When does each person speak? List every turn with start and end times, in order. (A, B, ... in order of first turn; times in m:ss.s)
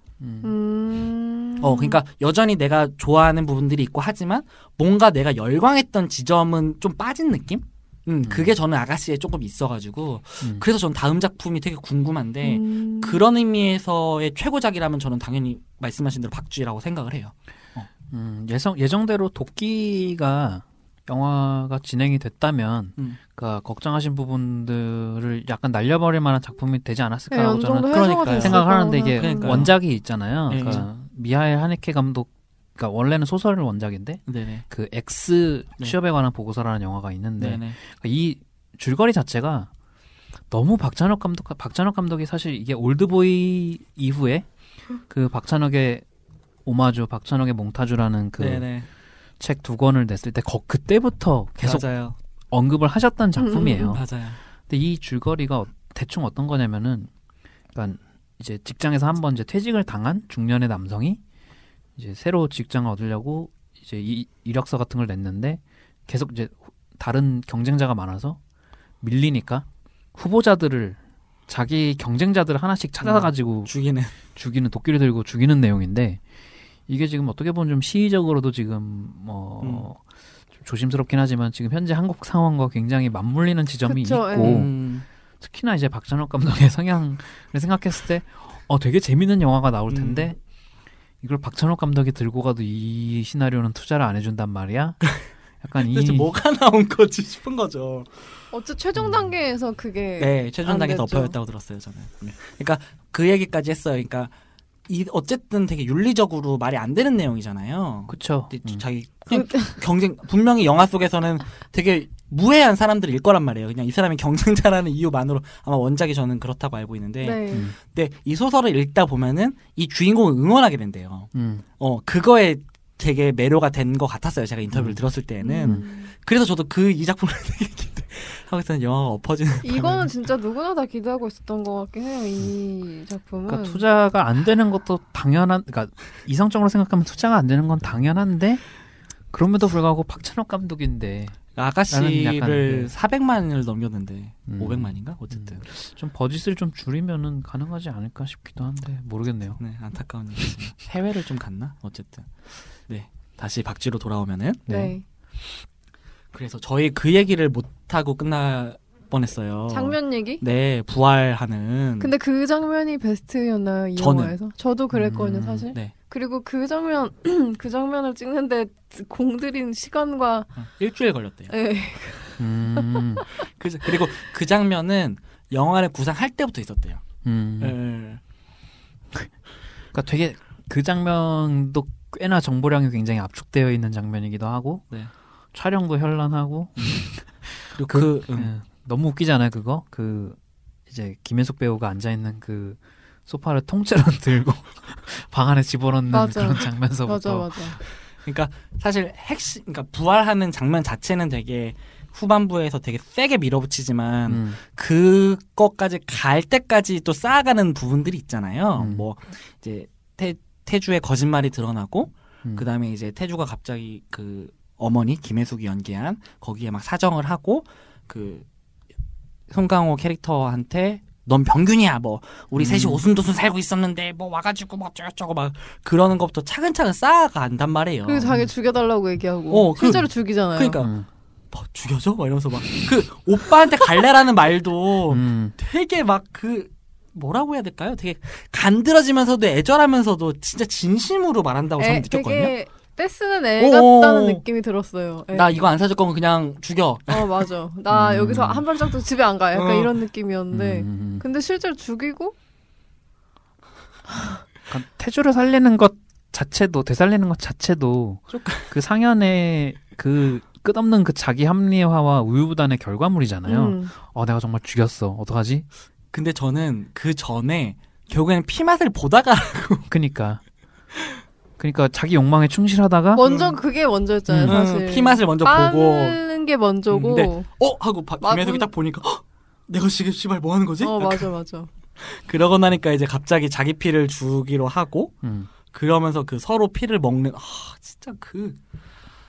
0:00.2-0:00.5 A
0:00.4-0:02.0 B
0:01.6-0:17.9 C
0:08.2-0:08.5 A
0:12.4-0:13.2 B
0:18.1-0:39.7 A
0:27.3-0:29.7 B
0:27.9-0:29.8 C
0:30.5-0:30.9 C
0:34.3-0:34.6 C
0:37.4-0:37.8 C
0:40.5-0:44.5 A
0:45.0-0:46.0 A
0:46.6-0:48.7 A
0:48.4-0:48.9 C
0:49.4-0:51.8 A
0:51.6-0:52.2 C
0:52.5-0:54.0 A
0:53.4-0:54.0 B
0:53.6-0:54.4 C
0:54.7-0:57.1 A
0:57.7-1:01.2 A
1:02.0-1:08.4 A
1:09.0-1:16.2 A
1:13.0-1:14.1 C
1:16.9-1:20.0 A
1:19.6-1:19.9 C
1:20.6-1:24.7 A
1:23.8-1:24.7 B
1:24.4-1:25.0 C
1:25.4-1:30.4 A
1:29.9-1:30.3 C
1:31.2-1:36.3 A
1:35.8-1:38.4 C
1:38.5-1:41.3 B
1:39.0-1:39.2 A
1:40.2-1:44.3 C
1:44.9-2:10.1 C
1:48.1-1:48.8 A
1:49.3-1:49.8 B
1:57.2-1:57.7 B
2:01.3-2:01.6 A
2:04.7-2:05.0 A
2:05.4-2:06.1 B
2:09.6-2:13.8 B
2:13.5-2:18.6 A
2:19.3-2:21.4 A
2:21.6-2:25.6 C
2:21.9-2:22.9 A
2:24.5-2:29.6 A
2:29.6-2:34.7 C
2:34.7-2:34.9 A
2:34.7-2:35.0 B
2:36.3-2:42.1 C
2:39.7-2:40.4 B
2:42.0-2:50.5 B
2:44.0-2:44.3 C
2:44.9-2:45.7 A
2:50.6-2:51.5 C
2:51.5-2:53.4 B
2:52.4-2:53.2 A
2:53.5-2:57.0 C
2:57.2-2:57.8 A
2:57.6-2:58.2 C
2:59.9-3:04.9 A
3:05.5-3:17.8 A
3:07.7-3:08.5 C
3:16.1-3:17.8 B
3:18.0-3:38.4 C
3:24.3-3:24.6 A
3:28.8-3:29.0 A
3:39.5-3:48.3 C
3:42.5-3:43.0 A
3:48.0-3:50.8 B
3:49.5-3:50.9 C
3:50.8-3:51.0 A
3:51.5-4:02.5 C
3:55.1-3:55.5 A
4:01.8-4:05.5 B
4:03.6-4:04.4 C
4:05.3-4:07.5 C
4:07.1-4:12.3 B
4:07.9-4:08.6 A
4:09.5-4:10.0 C
4:10.5-4:11.2 A
4:14.1-4:14.4 B
4:14.7-4:25.6 A
4:18.3-4:18.7 C
4:23.4-4:23.9 B
4:26.1-4:29.9 C
4:29.9-4:30.4 A
4:31.6-4:33.2 A
4:33.2-4:37.5 B
4:33.2-4:33.6 C
4:34.3-4:34.6 A
4:34.5-4:36.2 C
4:36.9-4:41.3 C
4:38.2-4:38.7 B
4:40.8-4:41.7 B
4:42.0-4:45.1 C
4:45.2-4:45.5 A
4:45.7-4:48.6 C